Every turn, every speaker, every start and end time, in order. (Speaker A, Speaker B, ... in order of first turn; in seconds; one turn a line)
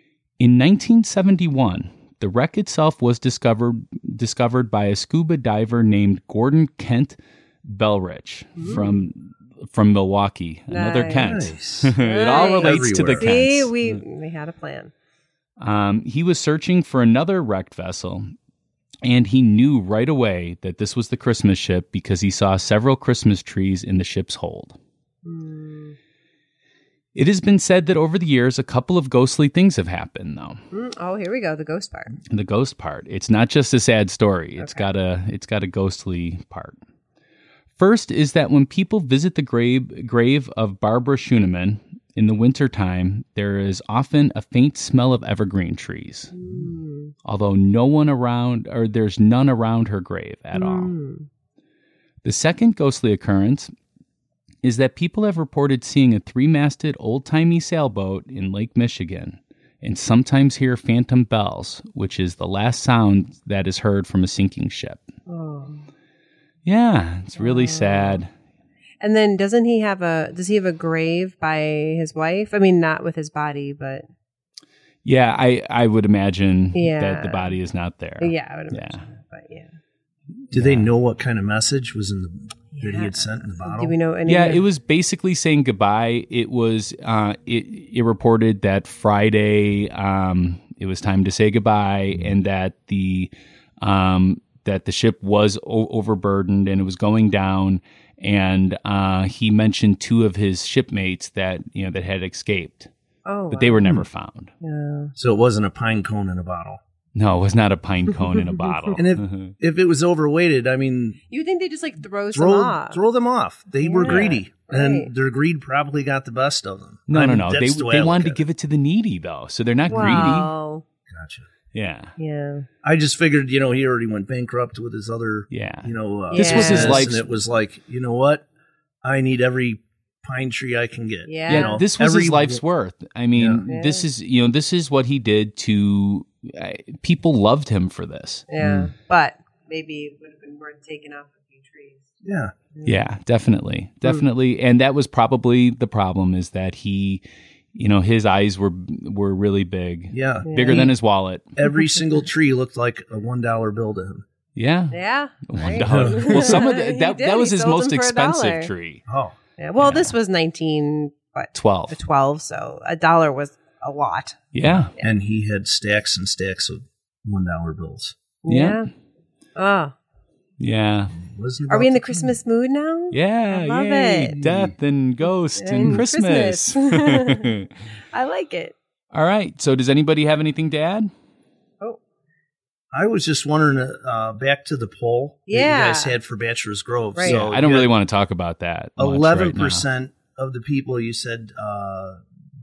Speaker A: 0.4-13.7
Speaker B: 8.6-8.9
Speaker B: 10.7-11.4
Speaker C: 11.2-13.3
Speaker B: 12.0-14.9
Speaker A: 15.6-18.3
Speaker A: 19.0-24.8
Speaker B: 25.2-26.0
Speaker A: 27.1-30.6
Speaker B: 30.7-32.1
Speaker A: 32.3-36.8
Speaker B: 34.6-34.8
Speaker A: 37.8-46.5
Speaker B: 46.3-47.1
Speaker A: 47.2-50.9
Speaker B: 50.5-51.3
Speaker A: 52.2-53.7
Speaker A: 54.6-65.0
Speaker B: 65.3-65.9
Speaker A: 66.7-68.3
Speaker B: 67.4-68.2
Speaker B: 69.0-74.0
Speaker A: 75.0-79.0
Speaker B: 76.7-77.5
Speaker B: 78.2-79.7
Speaker A: 80.5-80.9
Speaker C: 80.5-84.0
Speaker B: 82.7-84.6
Speaker A: 84.2-102.9
Speaker B: 103.2-103.9
Speaker A: 103.5-104.5
Speaker B: 104.6-105.1
Speaker C: 105.2-106.8
Speaker A: 107.1-109.5
Speaker C: 109.0-111.2
Speaker B: 111.3-113.0
Speaker C: 112.3-118.4
Speaker B: 113.8-115.1
Speaker A: 117.1-120.5
Speaker B: 119.9-120.8
Speaker C: 120.0-120.3
Speaker C: 121.1-121.5
Speaker A: 121.7-122.1
Speaker B: 122.2-122.7
Speaker C: 122.8-128.4
Speaker A: 125.5-127.2
Speaker B: 126.3-127.1
Speaker C: 129.0-132.6
Speaker B: 131.3-131.8
Speaker A: 131.5-138.9
Speaker C: 133.3-133.7
Speaker B: 133.7-134.0
Speaker B: 138.5-142.1
Speaker C: 142.2-142.5
Speaker B: 142.7-143.0
Speaker A: 142.8-147.2
Speaker A: 147.7-151.5
Speaker C: 150.1-150.9
Speaker B: 150.4-150.9
Speaker C: 151.6-154.2
Speaker A: 154.6-155.0
Speaker B: 154.9-158.7
Speaker A: 155.5-159.0
Speaker C: 155.8-156.6
Speaker C: 159.1-159.3
Speaker B: 159.6-164.4
Speaker A: 159.8-160.1
Speaker A: 161.5-162.0
Speaker A: 164.5-164.9
Speaker C: 165.0-168.2
Speaker B: 168.4-168.9
Speaker A: 168.5-168.8
Speaker B: 169.6-169.9
Speaker A: 170.6-171.1
Speaker C: 171.2-172.3
Speaker B: 171.7-174.3
Speaker A: 173.1-177.7
Speaker C: 174.3-174.7
Speaker B: 175.6-177.5
Speaker B: 178.1-178.7
Speaker A: 179.1-181.1
Speaker C: 182.9-187.9
Speaker B: 185.5-186.2
Speaker A: 187.2-189.8
Speaker C: 189.0-192.2